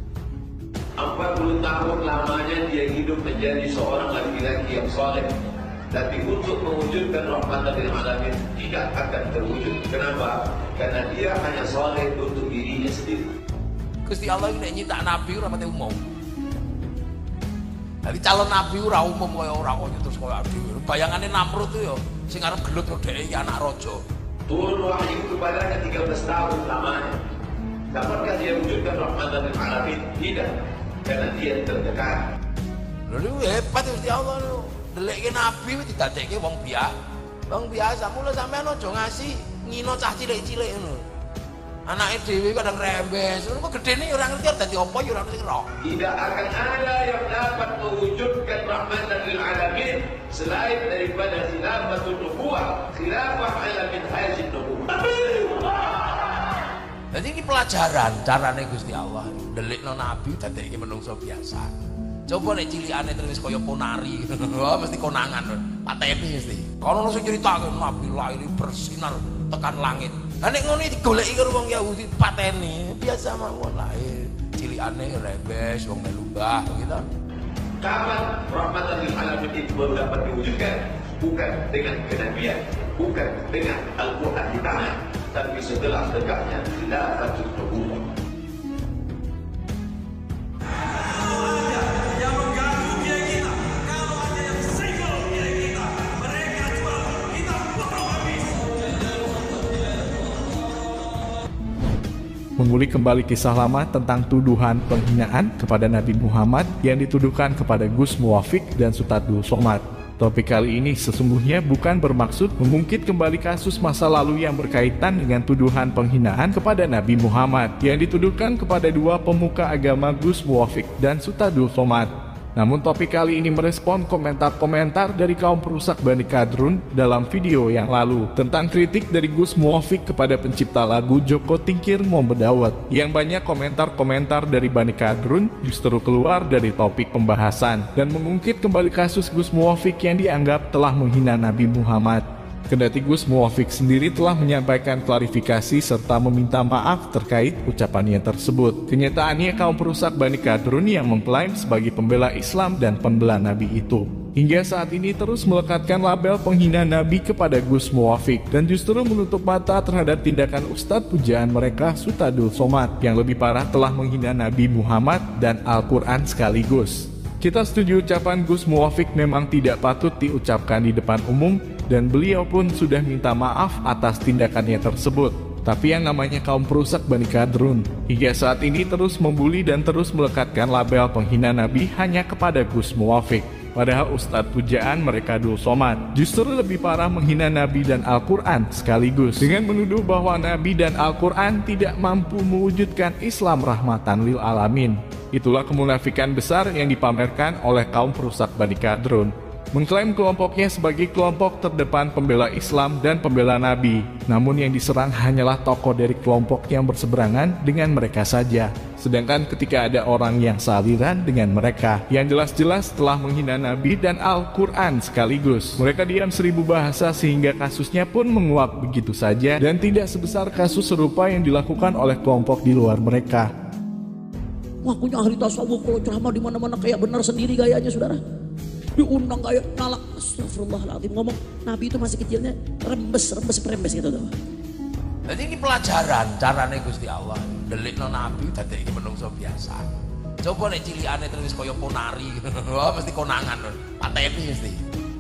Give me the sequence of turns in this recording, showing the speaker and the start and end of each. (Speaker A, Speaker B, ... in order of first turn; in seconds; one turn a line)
Speaker A: 1.0-5.3
Speaker A: 5.9-13.3
Speaker B: 14.1-16.0
Speaker B: 18.1-24.0
Speaker A: 24.5-27.2
Speaker A: 27.9-32.2
Speaker B: 33.1-37.0
Speaker B: 37.5-41.1
Speaker B: 41.9-45.7
Speaker A: 45.8-55.9
Speaker B: 57.1-61.7
Speaker B: 62.3-77.1
Speaker A: 77.8-88.0
Speaker B: 91.2-98.8
Speaker C: 102.6-223.5
Speaker D: 224.8-228.2
Speaker D: 229.0-234.3
Speaker B: 235.3-239.9
Speaker B: 240.4-244.8